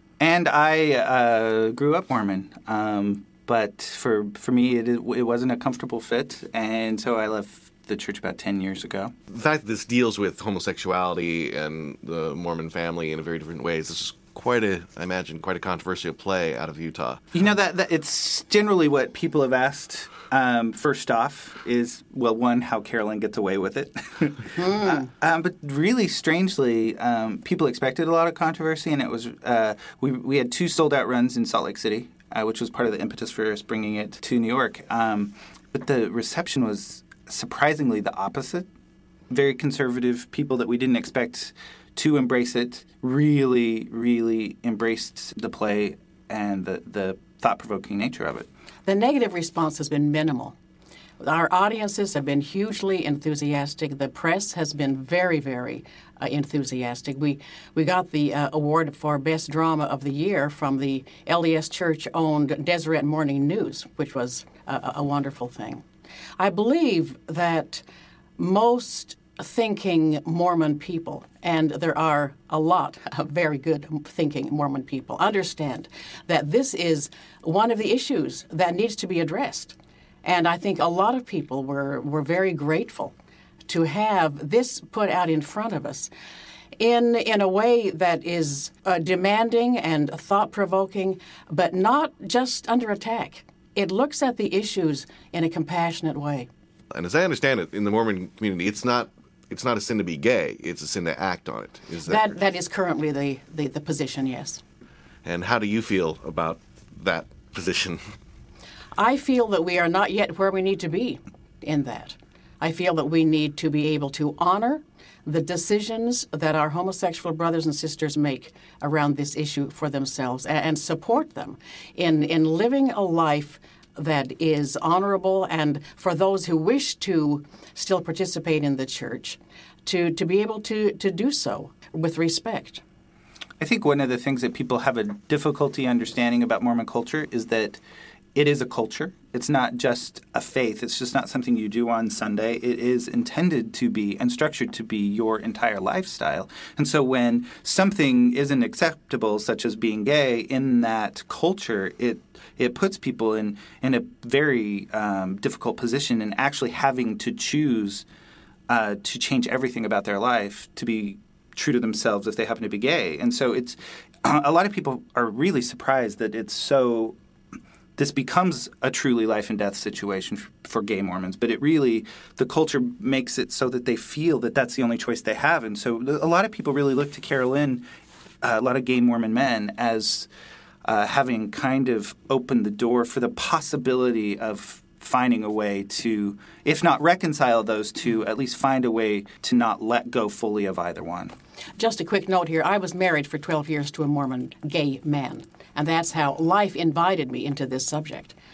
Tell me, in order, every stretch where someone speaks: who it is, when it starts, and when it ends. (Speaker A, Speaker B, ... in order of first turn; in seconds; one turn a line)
Speaker A: 0.2-9.1
Speaker B: 9.3-17.2
Speaker A: 17.3-38.7
Speaker C: 24.6-25.1
Speaker A: 39.3-48.5
Speaker C: 48.9-50.5
Speaker C: 51.2-65.8
Speaker C: 66.4-67.8
Speaker C: 68.4-83.1
Speaker C: 83.7-86.1
Speaker C: 86.8-96.5
Speaker B: 96.9-102.3
Speaker C: 102.1-104.6
Speaker B: 105.2-108.0
Speaker C: 109.0-132.8
Speaker A: 133.6-137.8
Speaker A: 138.3-158.0
Speaker A: 158.7-167.2
Speaker A: 168.0-177.8
Speaker A: 178.4-180.3
Speaker A: 180.8-191.3
Speaker C: 191.8-198.3